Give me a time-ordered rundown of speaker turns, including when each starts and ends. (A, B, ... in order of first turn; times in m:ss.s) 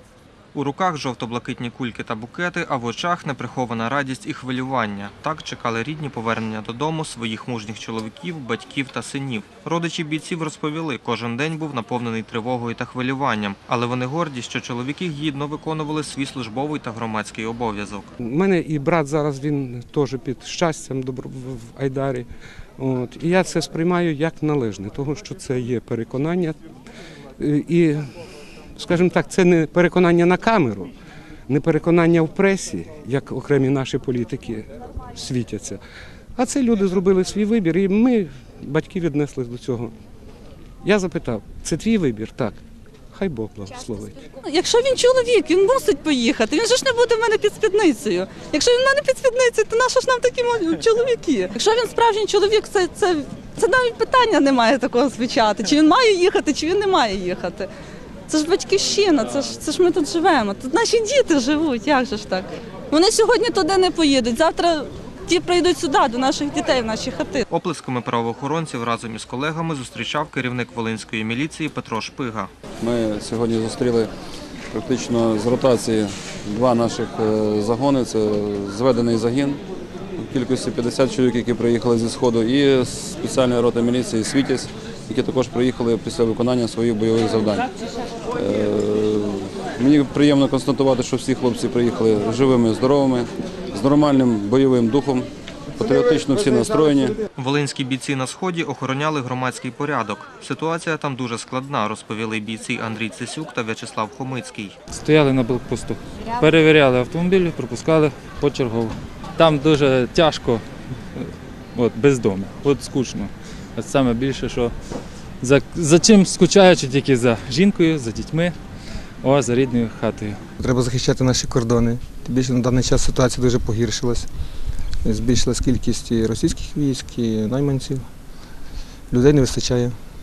0:00.5-0:18.1 A
0:18.2-0:22.3 B
0:22.8-0:26.6 B
0:27.4-0:28.1 B
0:28.8-0:30.9 B
0:31.5-0:35.8 B
0:36.4-0:39.9 B
0:40.8-0:42.6 B
0:43.1-0:44.3 B
0:44.3-0:57.7 C
0:58.3-1:07.4 C
1:07.5-1:12.5 A
1:12.8-1:14.1 D
1:14.7-1:19.6 D
1:20.2-1:27.7 D
1:28.3-1:37.2 D
1:37.4-1:44.8 A
1:44.9-1:54.7 E
1:55.4-1:58.6 E
1:59.2-2:00.4 E
2:00.6-2:04.3 F
2:05.0-2:08.1 F
2:09.1-2:09.9 F